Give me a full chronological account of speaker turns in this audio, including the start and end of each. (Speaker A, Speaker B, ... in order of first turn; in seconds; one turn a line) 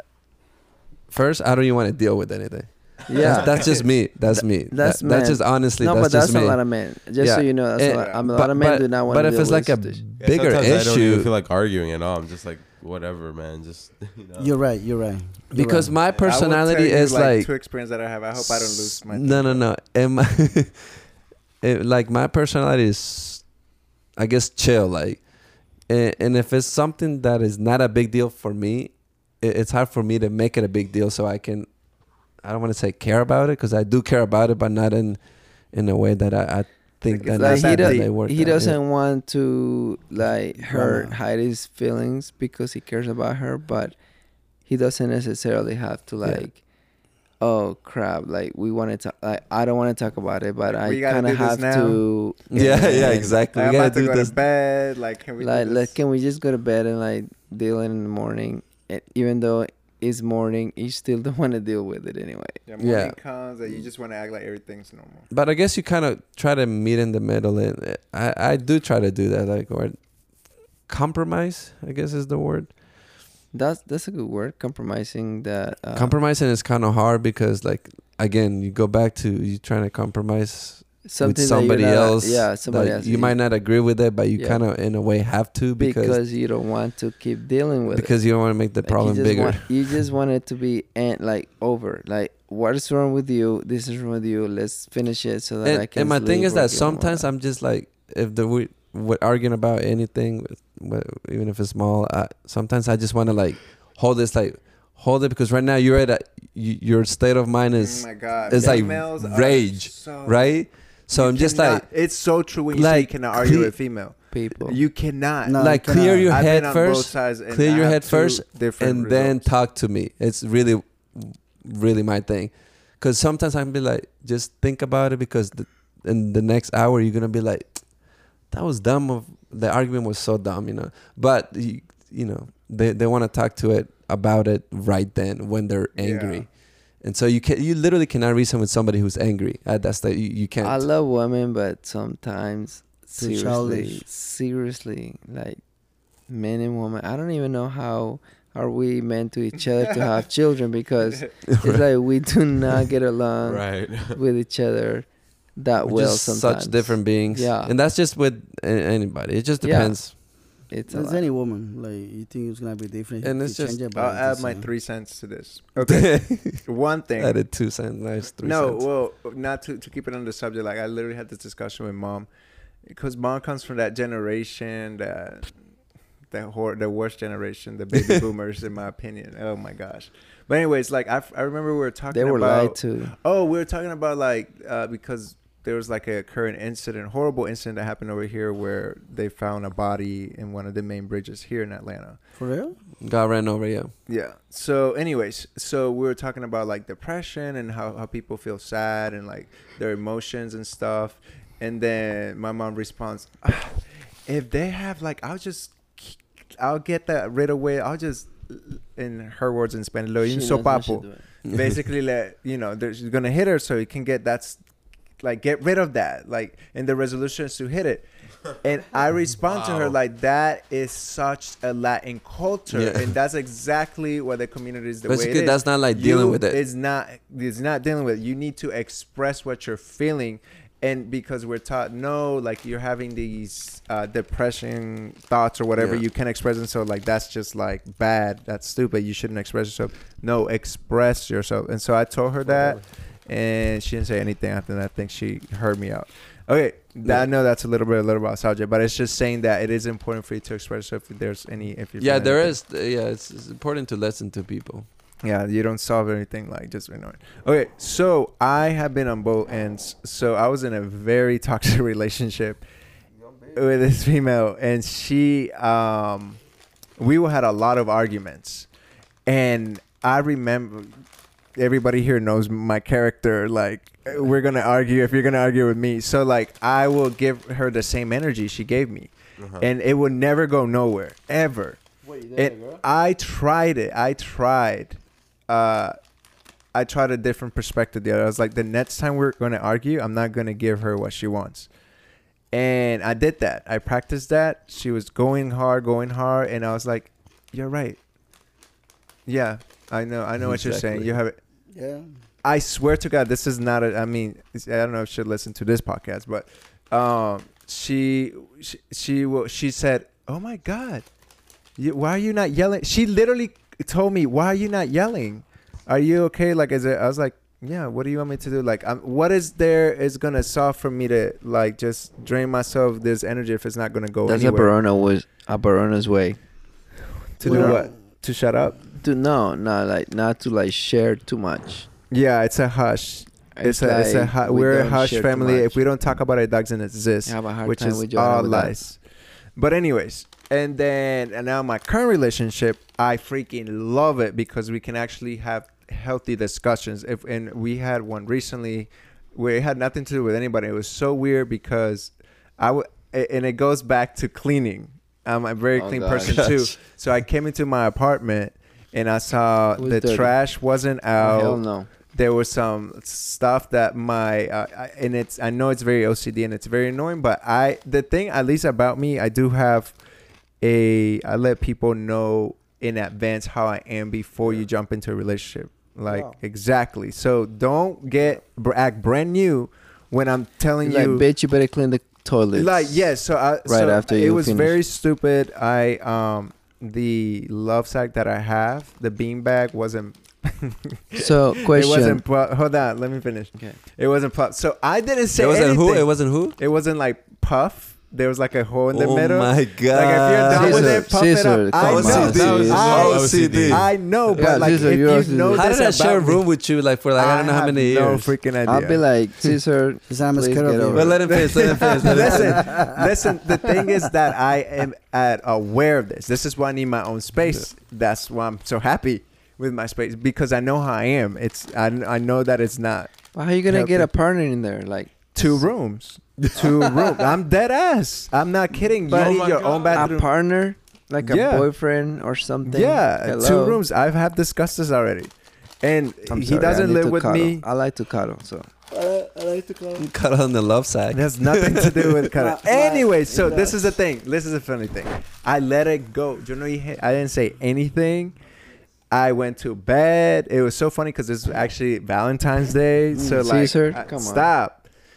Speaker A: 1.1-11.3
Speaker B: 3.1-10.0
Speaker C: 3.2-3.7
Speaker D: 7.9-8.3
Speaker C: 10.2-14.5
Speaker E: 14.4-15.9
Speaker A: 15.5-17.5
Speaker C: 16.1-16.4
Speaker D: 16.2-19.6
Speaker A: 18.4-21.0
Speaker A: 21.6-23.4
Speaker A: 24.2-25.2
Speaker A: 25.9-31.7
Speaker A: 32.4-35.2
Speaker A: 35.7-38.8
Speaker D: 37.1-38.1
Speaker B: 37.3-44.0
Speaker E: 40.8-41.1
Speaker B: 44.7-46.6
Speaker B: 47.4-53.4
Speaker D: 50.7-52.0
Speaker A: 52.5-54.3
Speaker D: 52.5-56.0
Speaker B: 55.4-62.6
Speaker D: 62.7-65.3
Speaker A: 62.8-63.2
Speaker A: 65.3-70.0
Speaker A: 70.9-72.7
Speaker B: 73.5-76.2
Speaker A: 76.0-86.2
Speaker B: 81.0-83.4
Speaker B: 84.4-84.6
Speaker B: 85.8-88.2
Speaker A: 87.9-89.9
Speaker B: 88.8-97.3
Speaker A: 95.7-111.9
Speaker D: 107.8-110.6
Speaker B: 108.6-108.8
Speaker D: 111.1-115.6
Speaker A: 112.7-113.7
Speaker B: 114.3-114.8
Speaker E: 115.4-116.4
Speaker A: 115.6-127.8
Speaker D: 116.3-119.5
Speaker A: 128.5-136.5
Speaker D: 135.9-136.5
Speaker A: 137.0-140.8
Speaker B: 140.6-145.6
Speaker E: 143.2-144.0
Speaker B: 146.3-157.7
Speaker A: 151.5-151.8
Speaker C: 153.4-154.2
Speaker A: 155.8-160.2
Speaker B: 159.6-161.2
Speaker E: 160.9-164.7
Speaker A: 163.2-163.8
Speaker D: 163.9-167.4
Speaker A: 165.8-166.6
Speaker A: 167.2-168.8
Speaker D: 168.4-172.3
Speaker D: 172.9-175.5
Speaker D: 176.3-192.2
Speaker A: 177.9-178.2
Speaker B: 182.1-183.1
Speaker E: 192.4-192.8
Speaker A: 193.0-193.9
Speaker D: 194.1-214.6
Speaker B: 210.2-211.2
Speaker D: 215.2-218.1
Speaker D: 218.6-252.6
Speaker C: 219.5-220.0
Speaker A: 222.7-223.1
Speaker A: 225.1-226.6
Speaker A: 235.8-236.0
Speaker A: 252.0-254.9
Speaker D: 255.2-262.6
Speaker D: 263.5-266.4
Speaker D: 267.0-268.7
Speaker D: 269.3-271.0
Speaker D: 271.6-281.8
Speaker C: 279.4-279.7
Speaker E: 282.1-282.5
Speaker D: 282.4-286.0
Speaker D: 286.7-291.7
Speaker D: 292.5-298.0
Speaker D: 299.3-301.4
Speaker A: 300.4-301.1
Speaker E: 301.7-302.1
Speaker D: 302.4-311.1
Speaker D: 311.8-324.8
Speaker B: 324.2-326.4
Speaker D: 327.4-328.8
Speaker B: 327.4-327.8
Speaker E: 327.5-327.8
Speaker B: 329.0-331.9
Speaker D: 332.1-339.0
Speaker B: 333.6-335.8
Speaker B: 337.3-338.8
Speaker D: 339.6-370.0
Speaker B: 355.7-356.5
Speaker B: 359.8-360.4
Speaker B: 361.2-361.9
Speaker D: 370.6-381.3
Speaker B: 380.8-383.1
Speaker D: 382.5-406.4
Speaker B: 383.6-384.8
Speaker B: 391.2-392.2
Speaker A: 395.4-396.6
Speaker A: 398.9-401.1
Speaker B: 400.5-402.9
Speaker A: 401.8-404.8
Speaker C: 401.9-403.9
Speaker B: 404.4-405.7
Speaker A: 405.5-408.3
Speaker D: 407.2-409.1
Speaker B: 408.7-411.2
Speaker E: 410.1-411.3
Speaker A: 410.9-412.8
Speaker D: 411.3-423.1
Speaker E: 412.1-413.1
Speaker B: 423.3-425.7
Speaker D: 423.7-424.1
Speaker D: 425.3-430.3
Speaker C: 429.1-430.2
Speaker B: 429.9-433.8
Speaker D: 431.2-431.7
Speaker D: 432.6-437.6
Speaker B: 436.3-438.7
Speaker E: 438.9-440.1
Speaker A: 440.0-442.3
Speaker D: 441.1-448.4
Speaker E: 442.4-443.9
Speaker D: 449.1-454.8
Speaker E: 453.1-453.4
Speaker B: 453.4-454.5